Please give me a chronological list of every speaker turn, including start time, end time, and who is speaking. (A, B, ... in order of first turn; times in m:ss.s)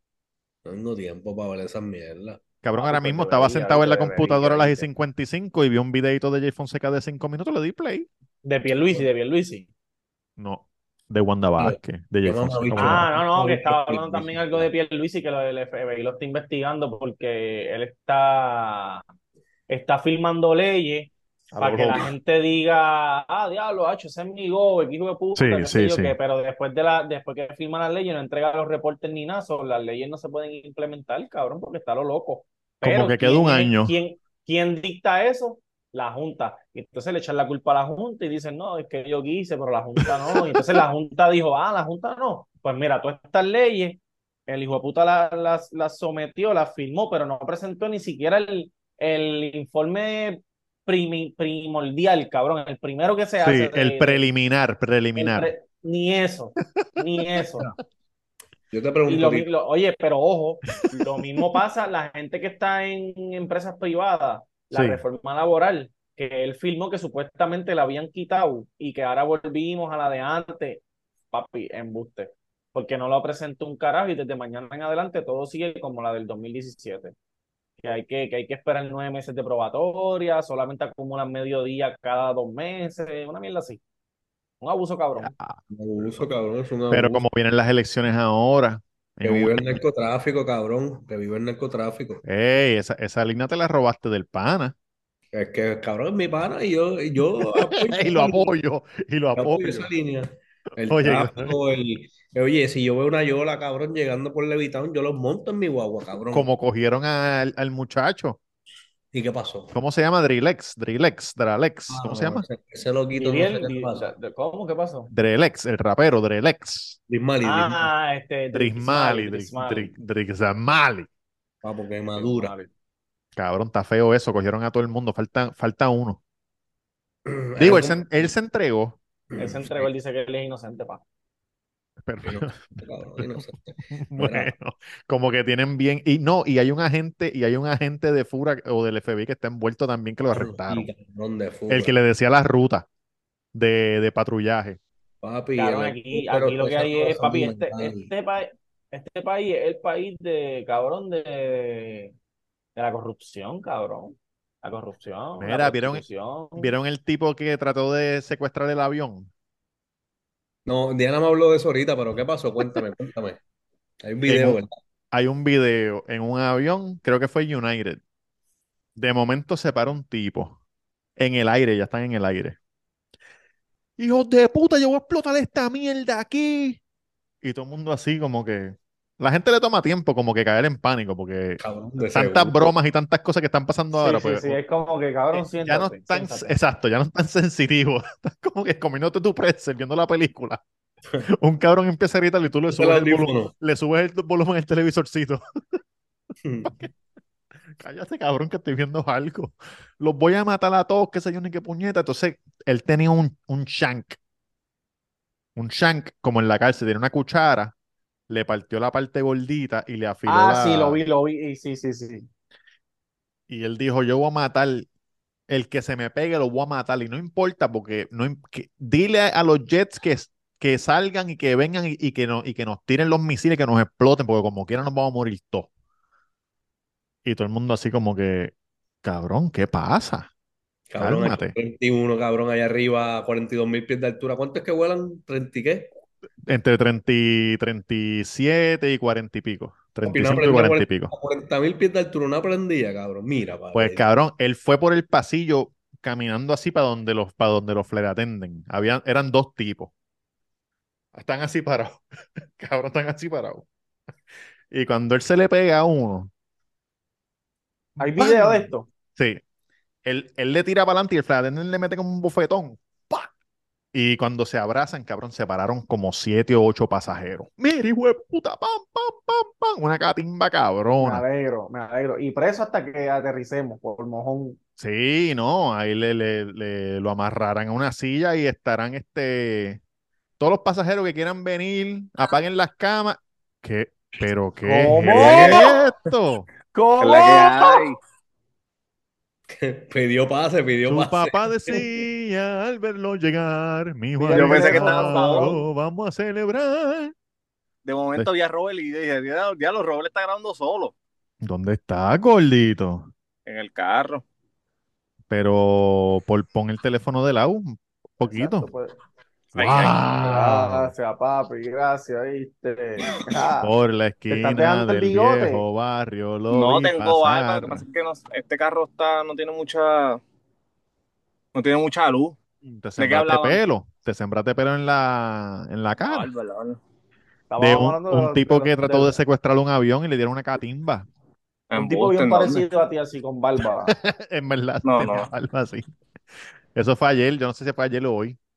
0:00.6-0:02.4 A
0:02.6-0:08.1 B
0:02.8-0:04.9 C
0:08.4-0:09.7 C
0:10.4-0:13.1 B
0:11.6-0:14.7 A
0:12.8-0:19.0 C
0:19.7-0:54.2 C
0:21.5-0:22.1 B
0:25.4-0:26.2 B
0:32.8-0:34.0 B
0:40.0-0:40.8 B
0:53.4-0:55.5 B
0:55.2-0:57.7 C
0:58.7-0:59.5 A
0:59.1-1:17.1 C
1:00.9-1:01.6 B
1:04.7-1:05.0 B
1:17.8-1:23.8 C
1:24.6-1:25.3 C
1:25.2-1:25.6 B
1:25.7-1:27.2 A
1:26.9-1:29.8 B
1:29.2-1:32.2 A
1:32.2-1:34.8 B
1:35.3-1:38.5 A
1:37.4-1:39.9 B
1:39.4-1:46.5 A
1:40.9-1:41.6 B
1:46.3-1:48.4 B
1:49.1-1:49.8 A
1:49.7-1:52.5 B
1:51.9-1:54.1 A
1:53.2-1:55.1 C
1:55.1-1:57.0 B
1:57.1-1:57.9 A
1:57.4-1:59.9 C
1:58.5-2:01.1 B
2:01.6-2:02.5 A
2:02.2-2:02.7 C
2:03.4-2:06.2 B
2:07.3-2:08.0 A
2:07.6-2:09.0 B
2:09.3-2:09.9 A
2:09.4-2:11.0 C
2:12.0-2:20.9 B
2:12.2-2:14.5 A
2:20.3-2:22.0 A
2:21.7-2:22.9 B
2:23.5-2:24.8 B
2:25.2-2:28.1 A
2:25.6-2:32.1 C
2:32.8-2:36.7 C
2:35.4-2:36.0 B
2:36.6-2:39.3 B
2:40.7-2:43.4 A
2:44.0-2:44.7 A
2:44.3-2:44.6 B
2:45.1-2:48.0 B
2:49.0-2:50.6 B
2:51.2-2:52.6 B
2:54.0-2:56.8 B
2:57.4-3:04.6 B
3:01.6-3:02.7 A
3:03.9-3:06.6 C
3:05.3-3:10.6 B
3:11.3-3:15.4 B
3:12.7-3:13.5 A
3:16.4-3:16.7 A
3:16.6-3:16.9 B
3:17.8-3:24.2 B
3:25.6-3:27.8 B
3:28.3-3:31.0 B
3:30.3-3:32.3 C
3:33.5-3:34.9 B
3:35.5-3:45.7 B
3:47.2-3:50.3 B
3:50.9-3:55.9 A
3:51.0-3:51.5 B
3:56.4-4:01.1 B
4:00.0-4:04.1 A
4:03.7-4:09.9 B
4:11.2-4:12.0 B
4:12.6-4:13.7 B
4:14.7-4:16.3 B
4:18.0-4:18.9 C
4:18.2-4:19.4 B
4:20.0-4:23.3 B
4:23.9-4:31.2 B
4:31.0-4:34.6 C
4:34.8-4:39.8 B
4:40.4-4:46.5 B
4:44.6-4:45.7 C
4:45.1-4:45.8 D
4:46.7-4:47.9 C
4:47.0-4:48.0 D
4:49.5-4:51.7 A
4:50.9-4:57.1 B
4:54.2-4:55.6 C
4:54.3-4:55.6 D
4:57.8-5:00.9 D
5:01.4-5:03.1 B
5:03.5-5:04.2 D
5:05.3-5:08.7 B
5:08.2-5:09.0 C
5:09.6-5:09.9 D
5:09.6-5:10.9 B
5:09.7-5:13.7 C
5:13.6-5:17.8 B
5:14.3-5:15.6 C
5:16.5-5:20.2 D
5:21.5-5:22.4 D
5:22.6-5:26.3 B
5:23.0-5:23.6 D
5:26.0-5:26.8 D
5:27.5-5:29.2 C
5:27.6-5:31.1 B
5:31.7-5:32.6 D
5:31.7-5:34.0 C
5:33.9-5:35.9 B
5:34.8-5:35.3 D
5:36.7-5:38.4 B